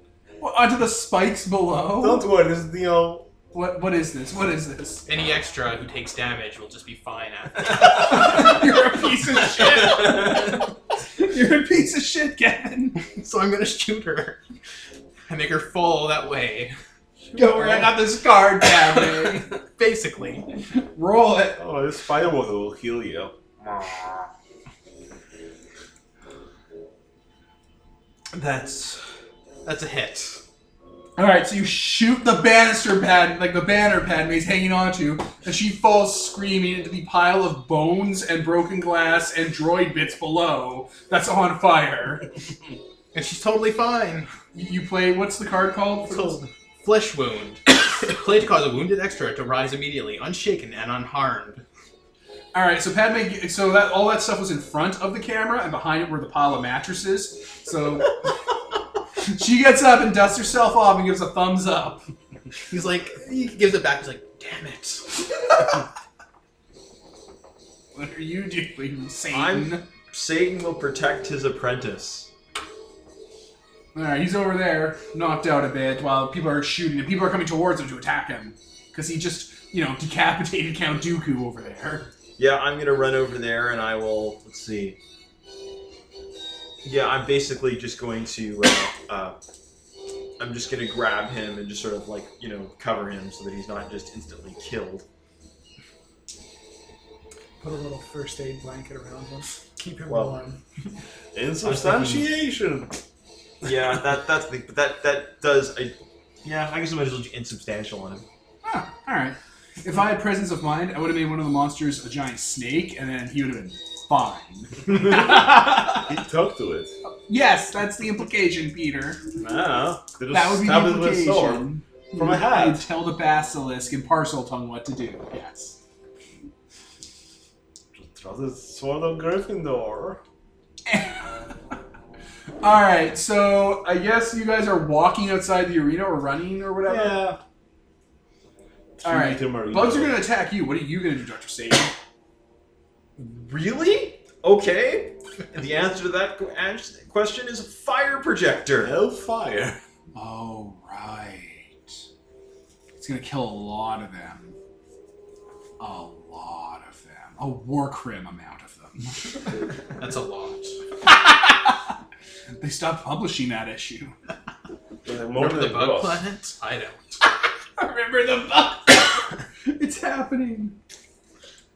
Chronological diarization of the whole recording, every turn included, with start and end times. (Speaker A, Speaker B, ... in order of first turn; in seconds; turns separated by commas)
Speaker A: 0.4-2.3, Speaker B: 2.0-3.3, Speaker A: 3.5-5.1, Speaker C: 5.0-8.6, Speaker A: 7.8-10.6, Speaker C: 9.6-10.3, Speaker A: 11.1-13.0, Speaker C: 13.1-14.4, Speaker C: 15.3-16.7, Speaker B: 17.3-17.9, Speaker A: 17.3-19.5, Speaker C: 18.7-20.4, Speaker A: 20.7-21.6, Speaker B: 21.6-23.3, Speaker D: 28.3-28.6, Speaker C: 29.6-30.4, Speaker A: 31.2-42.2, Speaker C: 43.1-44.3, Speaker A: 44.5-46.4, Speaker C: 46.1-51.6, Speaker A: 52.5-58.2, Speaker A: 59.2-62.0, Speaker C: 62.6-65.2, Speaker A: 67.9-69.8, Speaker D: 69.3-72.3, Speaker A: 73.9-82.1, Speaker D: 82.4-85.0, Speaker D: 86.8-89.3, Speaker D: 90.4-95.0, Speaker E: 97.6-100.6, Speaker D: 100.1-100.4, Speaker B: 101.3-103.0, Speaker D: 101.6-102.3, Speaker B: 103.6-103.9, Speaker D: 103.6-108.2, Speaker A: 108.6-116.1, Speaker B: 114.9-116.9, Speaker A: 117.0-119.2, Speaker B: 119.4-122.8, Speaker A: 120.3-125.8, Speaker B: 127.9-130.2, Speaker A: 130.9-131.5, Speaker A: 132.6-137.2, Speaker B: 136.8-137.4, Speaker B: 139.0-140.2, Speaker A: 139.0-141.9, Speaker D: 143.2-148.9, Speaker B: 148.8-149.8, Speaker A: 150.1-151.9, Speaker A: 152.9-154.6, Speaker A: 155.8-159.2, Speaker C: 160.0-160.8, Speaker A: 162.6-164.1, Speaker B: 165.0-166.2, Speaker C: 165.3-167.0, Speaker A: 167.8-170.8